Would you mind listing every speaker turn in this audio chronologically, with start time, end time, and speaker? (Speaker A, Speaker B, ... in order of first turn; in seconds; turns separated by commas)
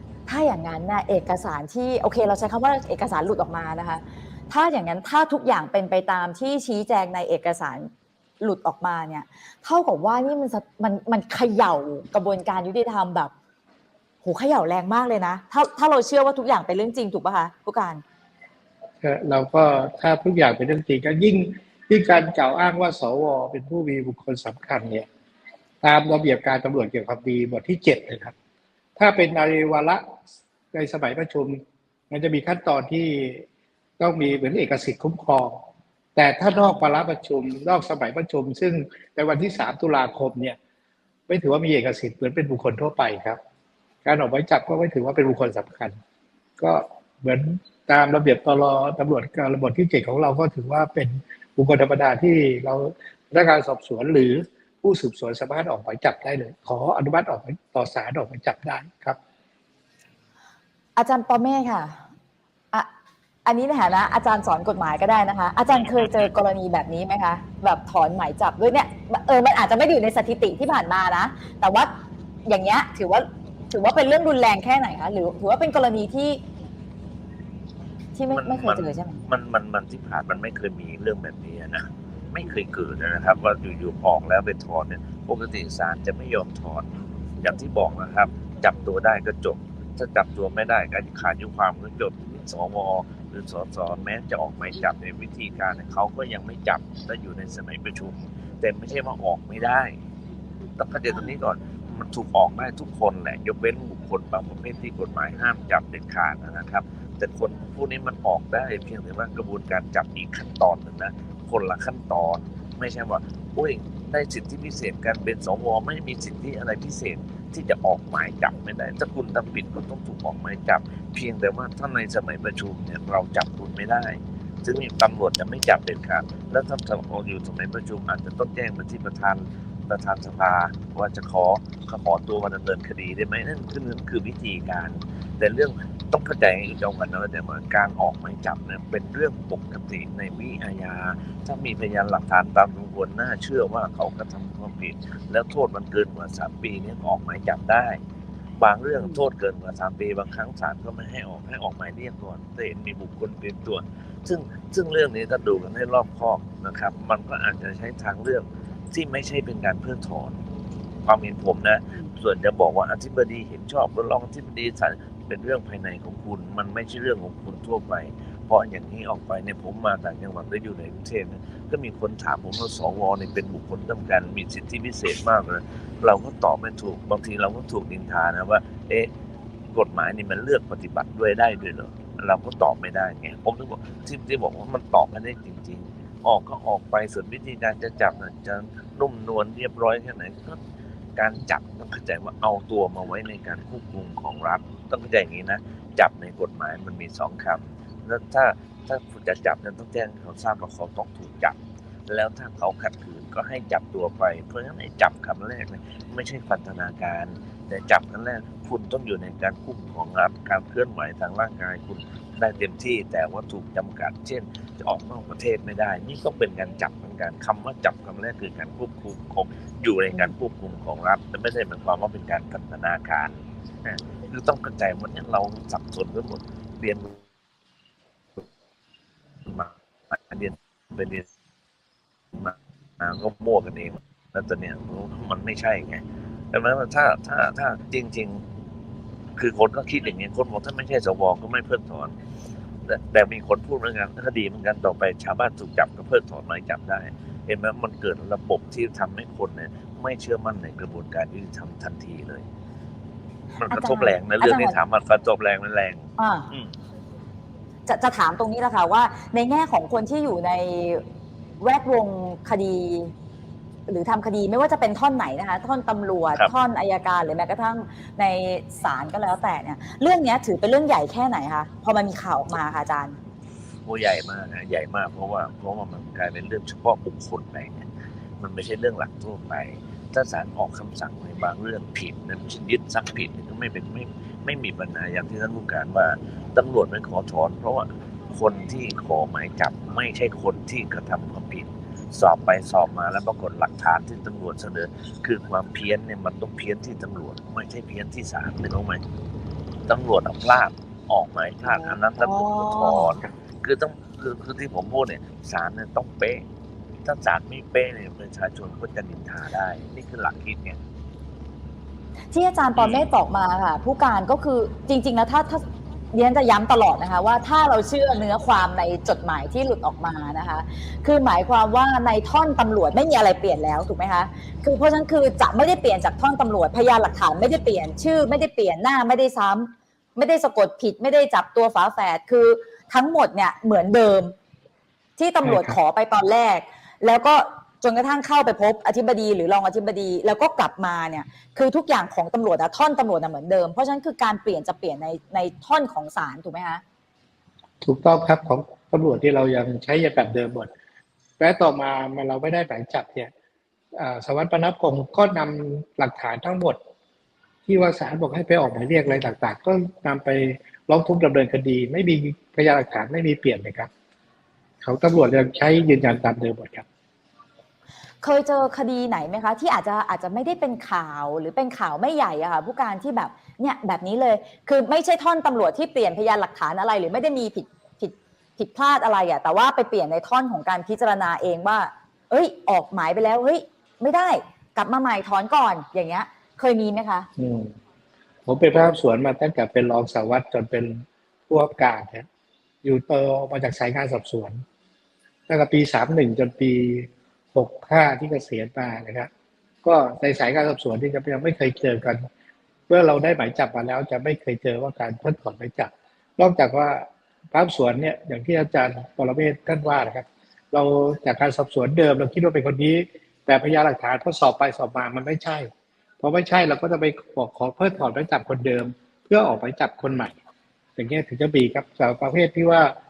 Speaker A: 0.3-13.3, Speaker A: 14.2-18.0, Speaker B: 19.0-25.1, Speaker B: 25.8-28.3, Speaker B: 29.0-30.1, Speaker B: 30.7-31.6, Speaker B: 32.1-33.4, Speaker B: 34.0-35.6, Speaker B: 36.2-40.6, Speaker B: 41.3-43.4, Speaker B: 44.0-46.0, Speaker B: 46.6-59.2, Speaker A: 61.0-62.0, Speaker A: 63.5-71.9, Speaker C: 65.8-66.3, Speaker A: 72.5-76.4, Speaker A: 78.2-79.2, Speaker C: 78.3-99.9, Speaker C: 100.8-148.0, Speaker A: 101.1-101.3, Speaker C: 148.6-160.4, Speaker C: 161.1-179.1, Speaker C: 179.7-190.6, Speaker C: 191.2-201.6, Speaker C: 202.1-227.2, Speaker C: 229.4-231.3, Speaker C: 232.3-238.4, Speaker C: 239.4-242.2, Speaker C: 242.9-252.4, Speaker C: 253.6-256.8, Speaker A: 253.7-254.8, Speaker A: 256.2-256.5, Speaker A: 257.9-261.0, Speaker A: 261.6-263.1, Speaker A: 263.9-273.2, Speaker C: 273.9-277.9, Speaker C: 278.4-299.0, Speaker C: 299.9-306.4, Speaker A: 301.6-303.2, Speaker C: 307.0-310.8, Speaker A: 312.3-334.4, Speaker C: 312.8-313.1, Speaker A: 335.2-346.8, Speaker B: 335.4-335.8, Speaker B: 347.8-350.7, Speaker B: 351.4-353.3, Speaker B: 353.9-356.8, Speaker B: 357.7-363.9, Speaker B: 364.8-366.9, Speaker A: 368.2-387.3, Speaker B: 387.4-387.7, Speaker B: 388.5-392.3, Speaker B: 392.8-394.6, Speaker B: 395.5-399.3, Speaker B: 399.8-402.3, Speaker B: 402.9-415.7, Speaker B: 416.2-420.4, Speaker B: 421.0-422.9